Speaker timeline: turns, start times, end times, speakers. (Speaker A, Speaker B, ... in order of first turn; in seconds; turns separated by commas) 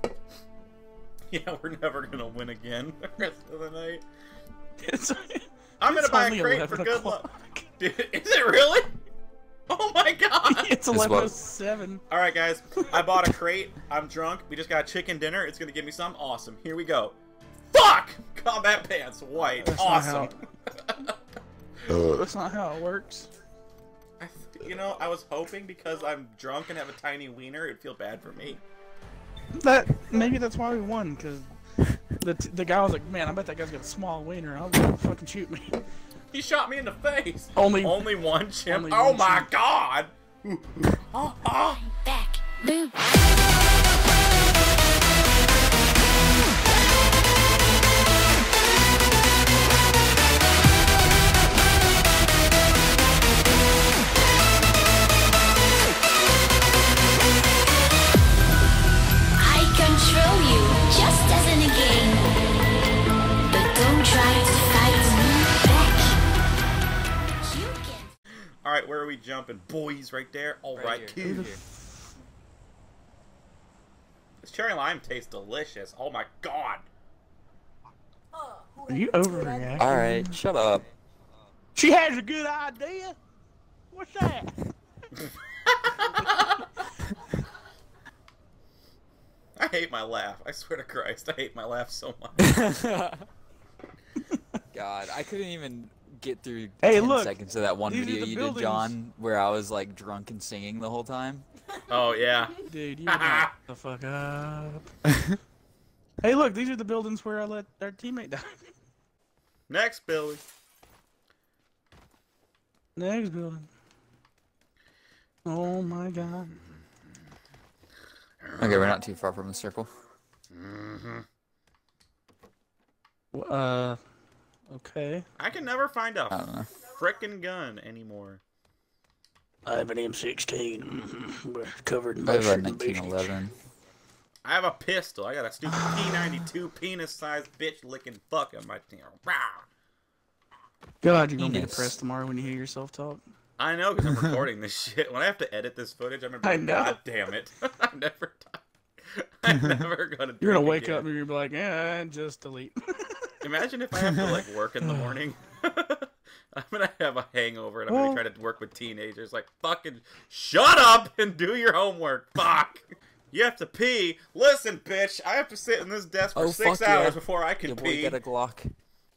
Speaker A: 1.3-4.0, Speaker B: 4.8-7.7, Speaker A: 5.8-7.2, Speaker A: 7.8-8.9, Speaker A: 9.7-10.7, Speaker B: 10.5-12.0, Speaker C: 10.9-11.3, Speaker A: 12.1-17.2, Speaker A: 17.7-21.1, Speaker B: 19.6-20.3, Speaker B: 21.9-23.3, Speaker A: 24.2-28.6, Speaker B: 29.6-31.5, Speaker B: 32.2-35.8, Speaker A: 36.3-41.9, Speaker B: 37.5-38.1, Speaker B: 38.6-39.5, Speaker D: 41.7-43.0, Speaker D: 59.4-62.4, Speaker D: 63.5-66.2, Speaker D: 67.4-68.1, Speaker A: 68.6-71.5, Speaker C: 70.7-71.6, Speaker B: 71.2-72.1, Speaker A: 74.4-76.9, Speaker B: 78.9-80.3, Speaker C: 79.8-80.8, Speaker B: 81.8-83.2, Speaker B: 83.9-84.5, Speaker A: 85.7-86.7, Speaker B: 86.0-86.4, Speaker A: 89.6-92.5, Speaker C: 92.4-93.3, Speaker B: 94.2-94.6, Speaker C: 94.7-101.5, Speaker B: 96.8-99.0, Speaker A: 101.9-103.5, Speaker B: 102.7-104.9, Speaker C: 105.1-105.4, Speaker B: 106.2-108.7, Speaker A: 109.7-110.4, Speaker B: 113.0-113.7, Speaker B: 115.5-116.6, Speaker A: 118.4-119.0, Speaker C: 118.6-119.9, Speaker A: 120.5-121.3, Speaker B: 123.3-124.0, Speaker B: 124.7-125.3, Speaker A: 125.4-128.4, Speaker C: 126.3-126.7, Speaker B: 129.7-133.3, Speaker C: 132.2-133.5, Speaker A: 134.4-139.6, Speaker B: 141.0-143.2, Speaker C: 141.4-142.0, Speaker A: 143.6-151.1, Speaker B: 146.4-147.0, Speaker B: 150.4-153.3, Speaker A: 153.4-168.2, Speaker C: 154.0-154.4, Speaker B: 154.8-155.2, Speaker B: 157.9-158.2, Speaker C: 166.3-168.7